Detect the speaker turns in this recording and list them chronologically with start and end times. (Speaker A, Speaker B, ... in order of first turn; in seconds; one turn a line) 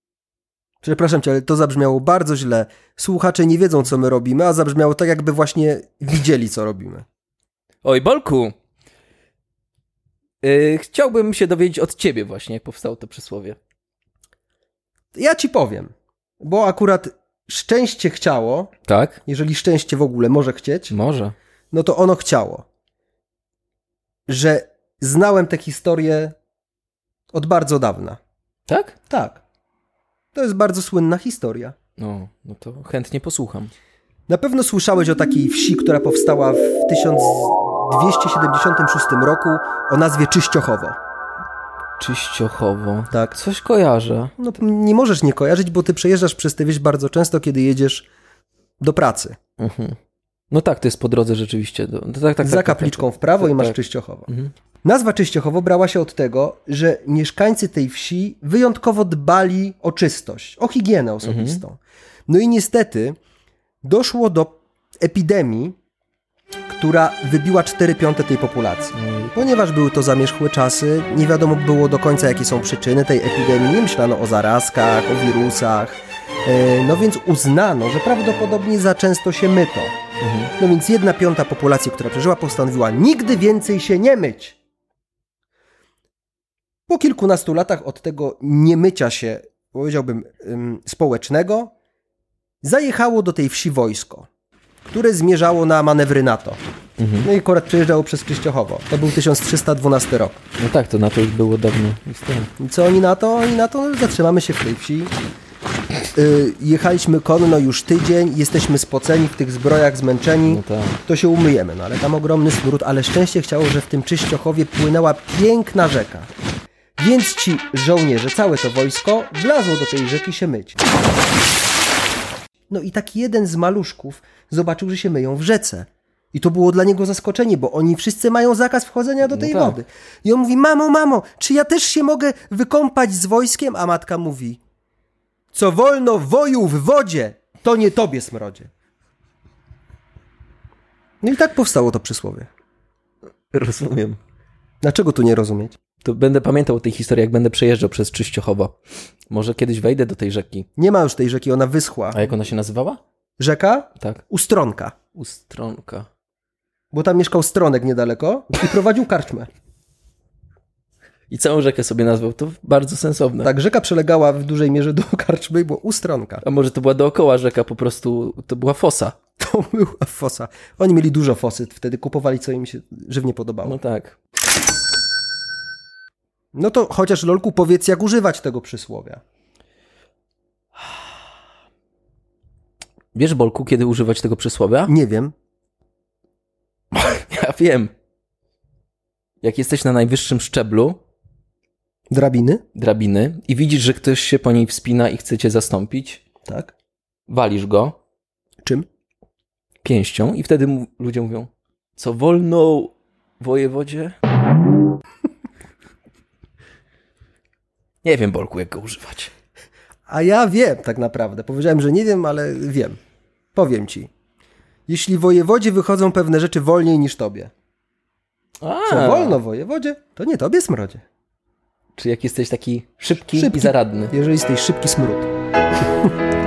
Speaker A: 0.8-7.0
Speaker B: 7.8-8.5
Speaker B: 10.4-13.6
Speaker A: 15.1-15.9
Speaker A: 16.4-18.7
Speaker B: 18.9-19.2
Speaker A: 19.2-20.9
Speaker B: 20.9-21.3
Speaker A: 21.7-22.6
Speaker A: 24.3-26.3
Speaker A: 27.3-28.2
Speaker B: 28.7-28.9
Speaker A: 29.1-29.4
Speaker A: 30.3-31.8
Speaker B: 32.0-33.7
Speaker A: 34.3-41.0
Speaker B: 42.0-44.3
Speaker A: 43.1-43.4
Speaker A: 44.4-48.1
Speaker A: 48.8-49.4
Speaker B: 49.6-50.0
Speaker B: 50.5-53.8
Speaker A: 52.4-54.3
Speaker A: 54.8-63.2
Speaker B: 61.2-61.6
Speaker A: 63.8-65.8
Speaker A: 66.7-80.0
Speaker B: 69.0-69.3
Speaker B: 80.2-80.5
Speaker A: 80.6-84.6
Speaker A: 86.9-91.7
Speaker A: 92.6-94.3
Speaker A: 94.9-96.6
Speaker B: 97.0-97.3
Speaker A: 97.2-100.4
Speaker B: 100.6-102.5
Speaker A: 102.6-105.1
Speaker A: 106.1-116.3
Speaker B: 110.5-111.0
Speaker A: 117.0-120.8
Speaker A: 122.7-134.6
Speaker B: 129.2-129.8
Speaker A: 135.5-138.7
Speaker A: 141.2-142.5
Speaker B: 143.5-144.2
Speaker A: 144.8-145.8
Speaker B: 146.0-148.7
Speaker B: 149.3-150.7
Speaker A: 150.8-152.2
Speaker B: 152.1-153.0
Speaker A: 153.4-154.9
Speaker B: 155.1-156.1
Speaker A: 156.9-159.5
Speaker B: 161.3-163.5
Speaker A: 163.4-166.4
Speaker B: 166.4-169.1
Speaker A: 169.4-173.8
Speaker B: 173.6-174.2
Speaker A: 176.5-179.2
Speaker B: 183.1-184.9
Speaker A: 184.9-185.3
Speaker B: 186.9-187.9
Speaker B: 189.4-191.0
Speaker A: 192.1-192.6
Speaker B: 192.7-196.2
Speaker A: 196.5-196.7
Speaker B: 197.3-197.9
Speaker B: 199.8-204.2
Speaker B: 208.0-209.3
Speaker A: 210.1-213.0
Speaker A: 213.5-214.1
Speaker A: 214.9-217.5
Speaker B: 218.6-219.4
Speaker A: 218.8-221.0
Speaker B: 221.9-224.1
Speaker A: 223.3-225.3